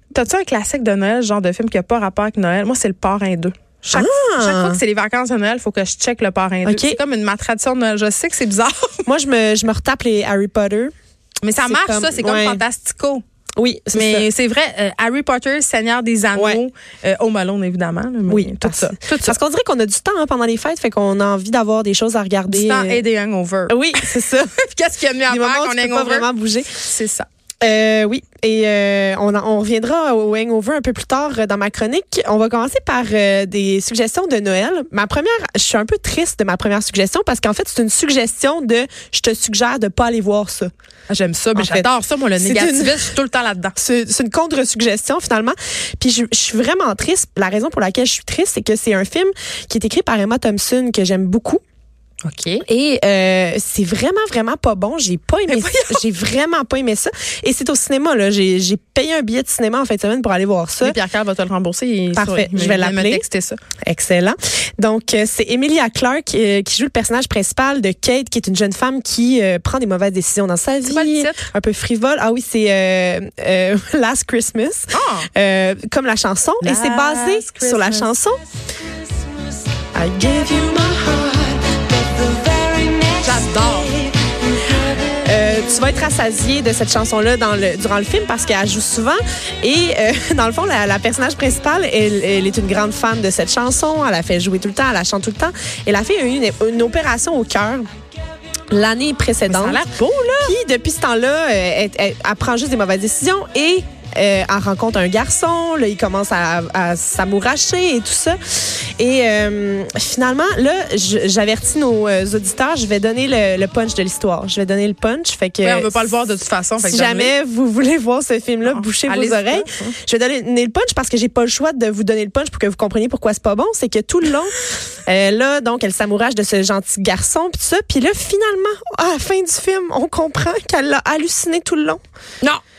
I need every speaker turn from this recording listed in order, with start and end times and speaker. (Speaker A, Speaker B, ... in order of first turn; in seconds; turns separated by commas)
Speaker A: 0.1-9.0, Speaker B: 3.9-4.8, Speaker B: 6.7-7.0, Speaker B: 9.1-10.9, Speaker A: 11.4-13.2, Speaker B: 11.6-12.6, Speaker B: 13.6-14.3, Speaker A: 13.9-19.4, Speaker B: 16.4-16.6, Speaker B: 18.3-23.0, Speaker A: 22.5-27.3, Speaker B: 23.7-24.6, Speaker B: 25.3-26.9, Speaker B: 27.6-40.7, Speaker A: 41.1-43.7, Speaker B: 41.5-43.1, Speaker B: 43.8-51.6, Speaker A: 52.2-52.6, Speaker B: 52.7-61.0, Speaker A: 55.5-56.0, Speaker A: 60.8-63.6, Speaker B: 62.1-63.2, Speaker B: 63.8-78.4, Speaker A: 70.9-71.5, Speaker A: 74.9-75.3, Speaker A: 76.6-78.1, Speaker B: 79.9-84.4, Speaker A: 83.2-84.0, Speaker B: 85.2-97.9, Speaker B: 98.7-99.8, Speaker A: 99.5-100.6, Speaker B: 100.4-116.2, Speaker A: 115.6-117.3, Speaker B: 116.8-132.0, Speaker A: 118.7-119.9